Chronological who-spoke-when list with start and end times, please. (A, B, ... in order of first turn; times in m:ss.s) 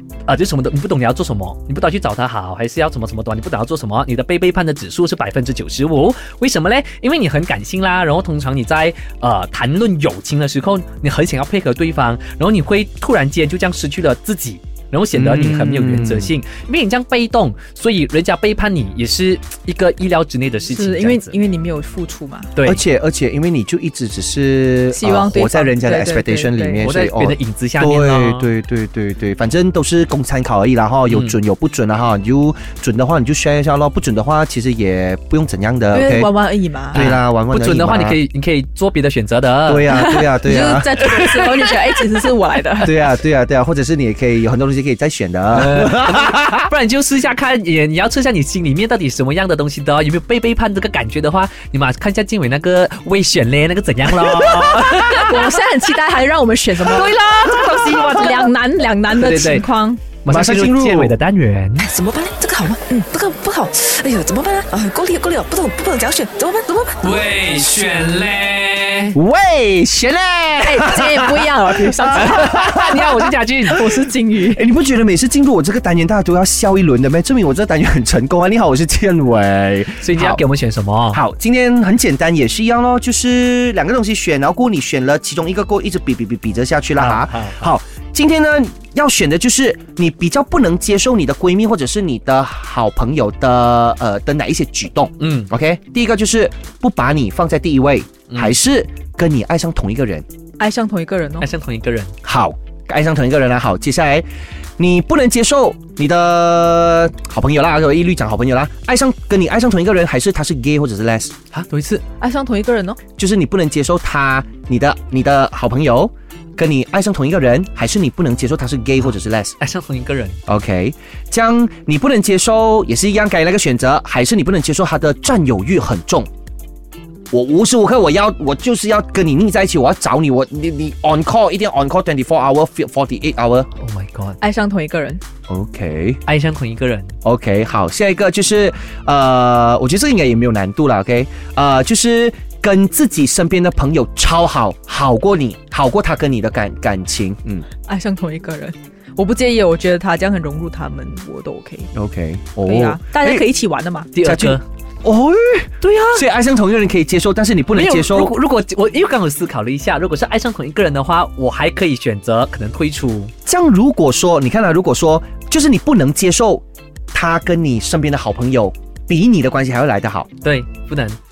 0:00.3-0:21.4 A
0:15.1-0:16.3 B
0:20.7-0:22.5 C
0:22.6-0:22.8 A
0:22.6-0:36.3 B
0:24.9-0:26.9 C
0:26.8-0:28.5 A
0:31.1-0:31.4 A
0:35.9-0:37.0 C
0:36.9-0:38.2 B
0:36.9-0:40.0 A
0:39.7-0:40.9 B
0:39.9-0:43.0 C
0:41.1-0:41.7 A
0:42.8-0:46.7 B
0:45.5-0:55.6 A
0:54.5-0:57.2 C
0:56.9-0:58.5 A
0:57.9-1:00.0 C
0:59.1-0:59.7 A
1:00.2-1:01.9 A
1:00.3-1:01.2 B
1:01.8-1:07.1 D
1:07.0-1:09.2 A
1:09.1-1:13.3 B
1:10.6-1:12.9 C
1:12.2-1:13.9 A
1:13.7-1:14.6 C
1:14.5-1:20.4 B
1:20.0-1:21.2 A
1:21.1-1:40.2 B
1:27.0-1:27.7 A
1:35.2-1:35.5 A
1:38.3-1:38.6 A
1:40.6-1:41.5 C
1:41.4-1:42.1 A
1:42.2-1:44.3 B
1:44.8-1:51.4 B
1:51.5-1:52.0 A
1:52.2-1:53.0 C
1:53.2-1:59.6 B
1:59.6-2:00.4 A
2:00.5-2:06.3 B
2:07.3-2:13.7 B
2:13.8-2:14.4 A
2:14.4-2:15.2 C
2:15.5-2:16.2 B
2:16.3-2:17.1 A
2:17.2-2:27.7 B
2:27.9-2:31.9 C
2:31.9-2:33.5 B
2:32.6-2:34.1 C
2:34.1-2:34.6 A
2:34.2-2:38.4 B
2:35.8-2:36.2 A
2:37.7-2:43.3 A
2:43.5-2:50.3 B
2:50.4-2:51.2 A